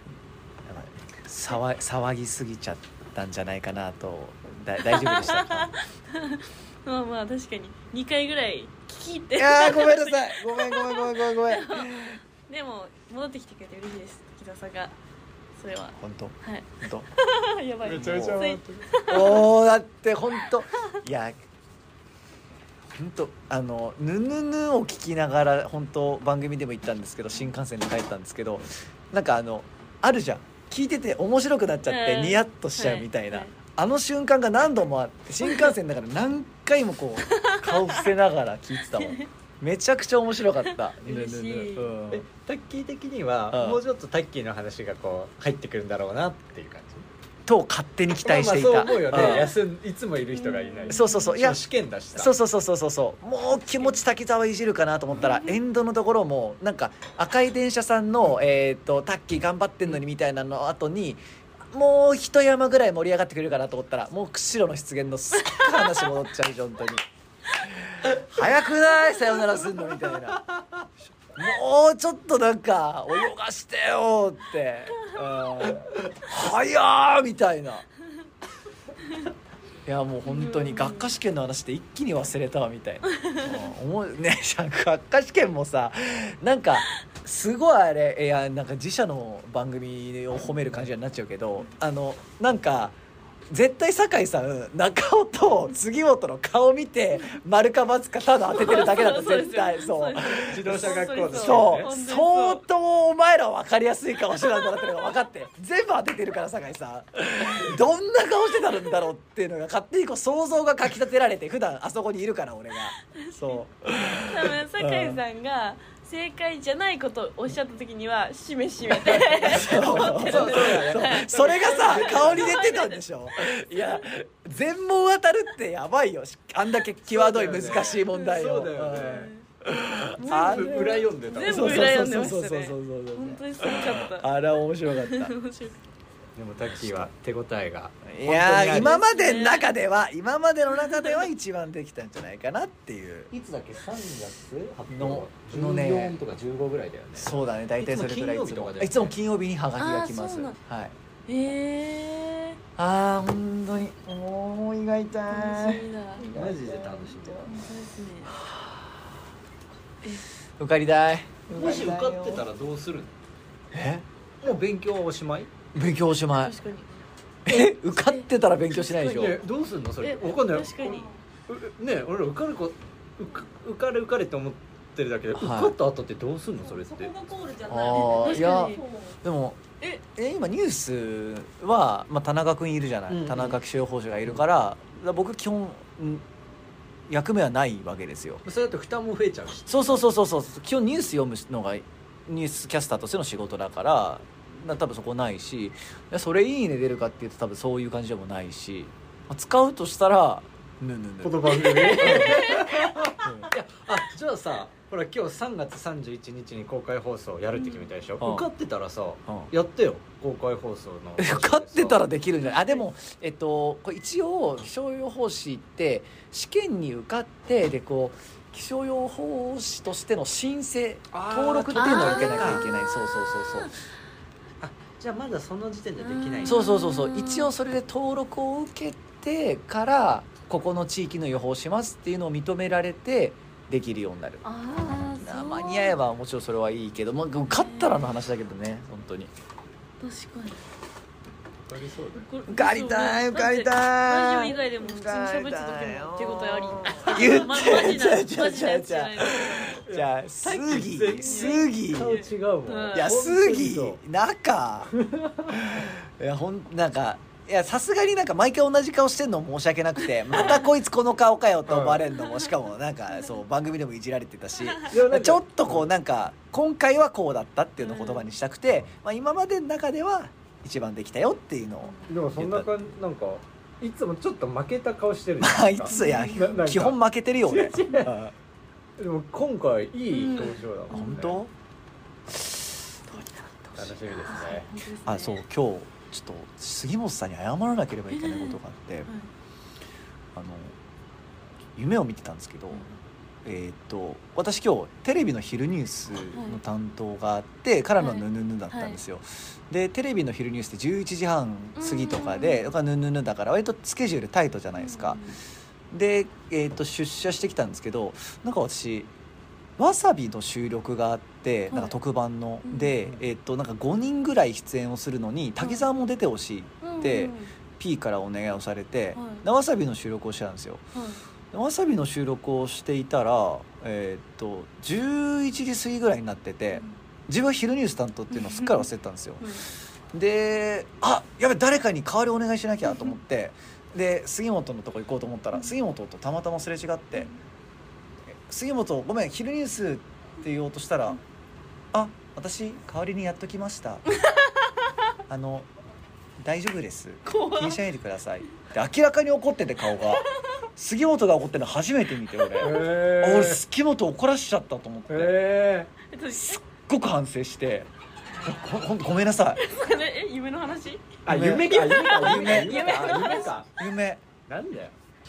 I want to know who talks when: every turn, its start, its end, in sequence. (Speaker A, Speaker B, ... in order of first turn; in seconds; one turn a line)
Speaker A: 0.6-5.8
Speaker B: 4.8-14.9
Speaker A: 9.4-12.2
Speaker B: 15.6-19.5
Speaker A: 16.0-17.1
Speaker C: 17.8-18.9
Speaker A: 17.9-18.5
Speaker A: 19.1-21.4
Speaker A: 22.9-42.2
Speaker B: 31.9-33.5
Speaker B: 35.4-35.7
Speaker B: 37.3-37.9
Speaker B: 38.9-39.3
Speaker B: 40.6-41.9
Speaker C: 42.1-47.0
Speaker A: 43.5-43.8
Speaker A: 47.5-49.5
Speaker C: 48.2-52.4
Speaker B: 49.1-49.5
Speaker B: 50.3-51.4
Speaker A: 50.9-51.6
Speaker A: 52.1-67.0
Speaker B: 65.4-66.0
Speaker A: 67.5-70.4
Speaker A: 71.3-77.8
Speaker A: 79.8-93.0
Speaker B: 80.2-81.1
Speaker B: 83.1-83.6
Speaker A: 93.5-115.2
Speaker B: 98.5-102.6
Speaker C: 100.4-101.9
Speaker B: 104.5-104.9
Speaker B: 113.0-124.0
Speaker A: 119.0-135.3
Speaker C: 119.6-122.7
Speaker C: 127.1-129.3
Speaker B: 128.1-129.4
Speaker B: 130.1-134.3
Speaker C: 130.2-132.1
Speaker B: 134.9-135.8
Speaker C: 136.4-139.0
Speaker A: 138.1-143.3
Speaker B: 138.8-139.7
Speaker C: 143.3-149.1
Speaker A: 144.9-146.2
Speaker A: 147.2-150.9
Speaker B: 149.8-150.6
Speaker B: 151.3-152.6
Speaker A: 152.8-157.5
Speaker B: 155.3-156.3
Speaker C: 156.3-157.5
Speaker B: 157.4-158.3
Speaker A: 158.3-158.9
Speaker A: 160.6-162.5
Speaker C: 161.5-163.2
Speaker A: 163.7-164.0
Speaker C: 164.4-165.5
Speaker A: 165.7-166.5
Speaker B: 166.4-167.0
Speaker A: 167.4-169.4
Speaker B: 167.6-169.2
Speaker C: 168.9-170.8
Speaker B: 170.0-171.1
Speaker D: 170.8-171.1
Speaker C: 171.5-177.1
Speaker A: 175.3-175.8
Speaker D: 176.6-179.2
Speaker A: 177.7-186.2
Speaker B: 177.9-178.8
Speaker C: 183.1-183.6
Speaker A: 187.1-188.4
Speaker C: 188.4-189.8
Speaker A: 189.7-203.5
Speaker C: 201.2-212.0
Speaker B: 201.5-202.7
Speaker B: 207.6-207.9
Speaker A: 208.2-208.5
Speaker A: 211.2-223.7
Speaker B: 212.4-212.8
Speaker C: 221.1-222.6
Speaker B: 221.7-223.9
Speaker C: 224.6-226.6
Speaker B: 226.0-227.5
Speaker A: 226.4-239.3
Speaker B: 234.4-236.0
Speaker B: 237.5-238.1
Speaker B: 240.0-240.6
Speaker C: 241.7-242.3
Speaker B: 242.1-249.8
Speaker A: 242.5-252.2
Speaker C: 249.8-254.0
Speaker B: 251.2-253.1
Speaker A: 252.9-254.9
Speaker C: 254.9-255.6
Speaker A: 255.5-272.7
Speaker B: 260.4-260.6
Speaker C: 261.7-262.0
Speaker C: 264.9-265.9
Speaker B: 267.8-268.3
Speaker B: 271.8-272.1
Speaker C: 272.1-278.1
Speaker A: 275.4-278.3
Speaker B: 275.9-276.5
Speaker C: 279.0-281.4
Speaker B: 280.1-281.2
Speaker A: 280.9-281.5
Speaker B: 283.1-285.4
Speaker C: 283.8-284.7
Speaker A: 285.1-289.1
Speaker B: 288.1-289.3
Speaker A: 290.3-290.8
Speaker A: 291.7-292.8
Speaker B: 292.7-293.0
Speaker A: 293.4-305.2
Speaker B: 296.3-296.6
Speaker B: 298.0-299.0
Speaker B: 301.8-302.7
Speaker B: 304.7-305.4
Speaker A: 305.9-309.1
Speaker A: 309.8-320.8
Speaker B: 311.7-312.0
Speaker B: 312.6-312.9
Speaker B: 315.6-315.9
Speaker B: 316.8-317.5
Speaker B: 319.1-319.4
Speaker B: 320.9-321.2
Speaker A: 321.5-329.6
Speaker B: 328.3-328.9
Speaker B: 329.4-329.6
Speaker A: 330.1-337.3
Speaker A: 338.3-341.2
Speaker A: 341.9-344.0
Speaker B: 344.1-344.5
Speaker A: 345.3-345.7
Speaker A: 346.4-355.3
Speaker B: 347.2-347.8
Speaker C: 352.6-353.6
Speaker C: 355.1-355.9
Speaker B: 356.1-356.6
Speaker A: 356.3-359.6
Speaker B: 359.6-363.6
Speaker C: 361.2-363.7
Speaker A: 361.3-364.2
Speaker C: 364.5-364.9